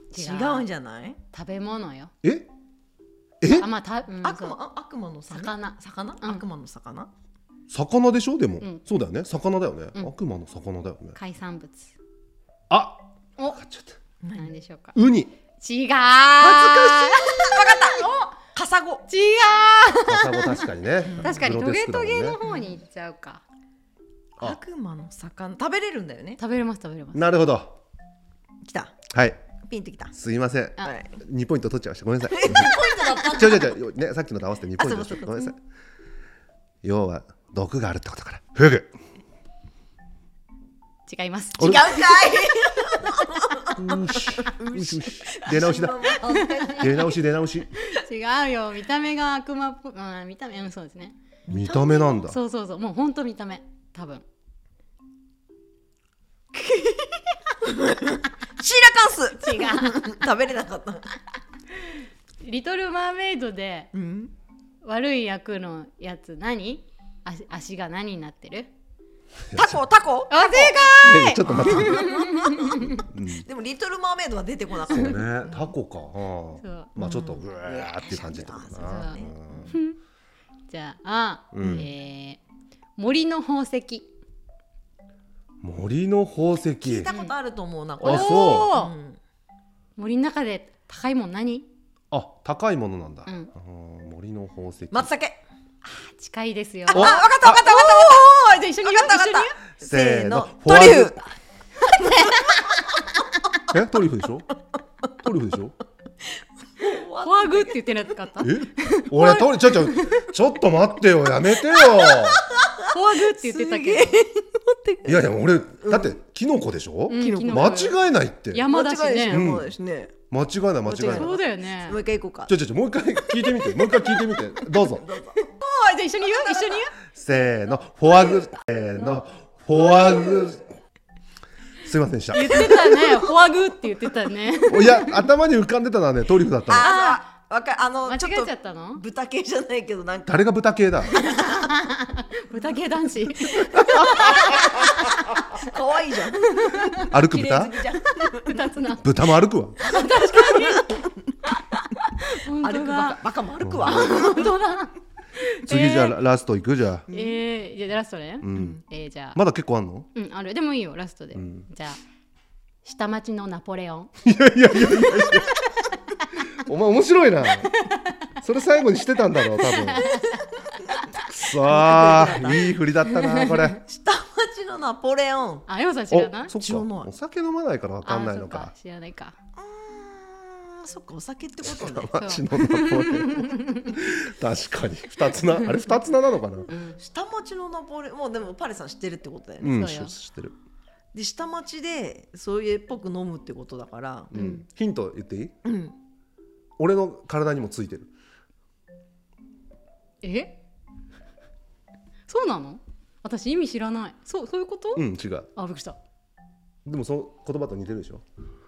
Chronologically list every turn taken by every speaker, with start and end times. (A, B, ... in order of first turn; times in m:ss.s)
0:00.1-0:00.6 A
0:00.1-0:01.2 B
0:01.3-0:02.1 A
0:02.2-0:02.5 C
0:03.4-0:03.7 C
0:03.5-0:04.6 A
0:04.2-0:07.1 B
0:05.3-0:06.4 A
0:07.7-0:11.2 C
0:11.2-0:11.9 A
0:12.7-0:13.0 C
0:13.5-0:14.0 C
0:14.2-0:14.5 B
0:14.4-0:15.0 A
0:14.9-0:15.3 C
0:15.6-0:18.0 A
0:16.4-0:19.0 B
0:16.5-0:17.1 C
0:19.1-0:20.6 A
0:20.0-0:22.4 C
0:21.0-0:21.5 B
0:21.2-0:23.4 A
0:22.4-0:22.8 B
0:24.4-0:26.4 B
0:26.4-0:27.3 A
0:27.1-0:27.7 C
0:28.6-0:29.0 B
0:29.1-0:29.4 C
0:29.6-0:30.1 B
0:30.1-0:35.6 C
0:30.8-0:31.2 B
0:32.3-0:33.8 B
0:34.8-0:35.5 B
0:36.8-0:38.9 C
0:41.1-0:41.8 A
0:41.6-0:42.0 C
0:41.6-0:47.2 B
0:43.7-0:46.2 C
0:46.3-0:46.9 A
0:46.7-0:47.7 C
0:47.8-0:54.2 A
0:51.5-0:52.4 C
0:56.5-1:01.1 B
0:59.4-1:00.1 A
1:02.4-1:03.9 A
1:03.9-1:04.3 B
1:04.8-1:08.7 A
1:09.5-1:09.8 C
1:09.5-1:10.9 B
1:10.3-1:13.0 A
1:11.0-1:12.2 C
1:11.4-1:15.6 B
1:12.8-1:13.4 C
1:14.9-1:19.7 C
1:16.6-1:16.9 A
1:17.0-1:19.7 B
1:18.8-1:20.0 A
1:20.7-1:22.4 A
1:21.5-1:21.9 C
1:23.0-1:24.1 A
1:25.6-1:27.1 C
1:26.8-1:29.2 B
1:28.0-1:28.7 C
1:28.0-1:28.9 A
1:30.0-1:31.6 A
1:32.1-1:35.1 C
1:33.2-1:33.5 A
1:34.9-1:35.4 B
1:35.9-1:39.6 A
1:36.9-1:41.3 B
1:36.9-1:37.5 C
1:39.8-1:41.2 C
1:41.8-1:43.0 B
1:43.7-1:44.5 C
1:45.2-1:45.7 C
1:46.8-1:47.8 B
1:47.2-1:50.2 A
1:48.4-1:52.4 C
1:51.6-1:55.3 B
1:52.9-1:54.2 A
1:55.0-1:58.7 C
1:55.8-1:56.2 B
1:57.1-1:58.0 A
1:57.1-1:57.6 B
1:58.5-1:59.5 A
1:58.7-2:00.1 B
1:59.3-1:59.7 C
2:00.3-2:01.3 C
2:00.8-2:02.5 B
2:01.1-2:02.0 A
2:02.5-2:05.0 C
2:03.3-2:05.5 B
2:05.6-2:06.9 A
2:07.1-2:10.7 C
2:11.8-2:12.7 C
2:12.3-2:15.2 A
2:12.5-2:13.3 B
2:14.7-2:16.9 C
2:16.7-2:20.4 B
2:16.8-2:17.2 A
2:18.0-2:19.0 A
2:20.3-2:21.1 C
2:21.0-2:21.7 B
2:21.3-2:25.4 A
2:24.2-2:25.0 B
2:25.5-2:28.6 B
2:26.6-2:27.0 A
2:27.1-2:27.7 C
2:28.4-2:29.1 A
2:29.0-2:29.8 C
2:29.8-2:33.2 A
2:29.9-2:31.0 B
2:32.6-2:34.6 B
2:33.6-2:34.0 C
2:33.8-2:36.2 A
2:35.6-2:37.1 C
2:37.1-2:37.4 B
2:37.1-2:39.4 A
2:38.4-2:38.8 C
2:38.5-2:38.8 B
2:39.3-2:40.1 C
2:40.1-2:42.0 A
2:41.4-2:41.6 C
2:42.8-2:44.1 A
2:44.2-2:45.6 C
2:46.5-2:47.8 C
2:47.8-2:48.1 A
2:48.4-2:50.2 C
2:49.6-2:50.4 A
2:50.1-2:52.7 B
2:51.1-2:53.8 C
2:53.0-2:53.8 A
2:53.9-2:55.6 B
2:55.7-2:56.5 A
2:56.1-2:58.7 C
2:56.5-2:57.1 B
2:58.0-2:59.4 A
2:59.6-3:02.2 B
3:01.6-3:06.7 C
3:02.1-3:04.0 A
3:05.5-3:05.9 A
3:06.7-3:07.0 A
3:07.0-3:09.7 B
3:09.6-3:10.5 C
3:09.6-3:10.1 A
3:11.1-3:14.3 B
3:14.3-3:15.5 C
3:14.3-3:14.6 A
3:15.6-3:16.0 B
3:16.8-3:18.1 C
3:20.2-3:20.6 A
3:22.3-3:26.0 A
3:25.0-3:25.5 C
3:26.8-3:28.2 C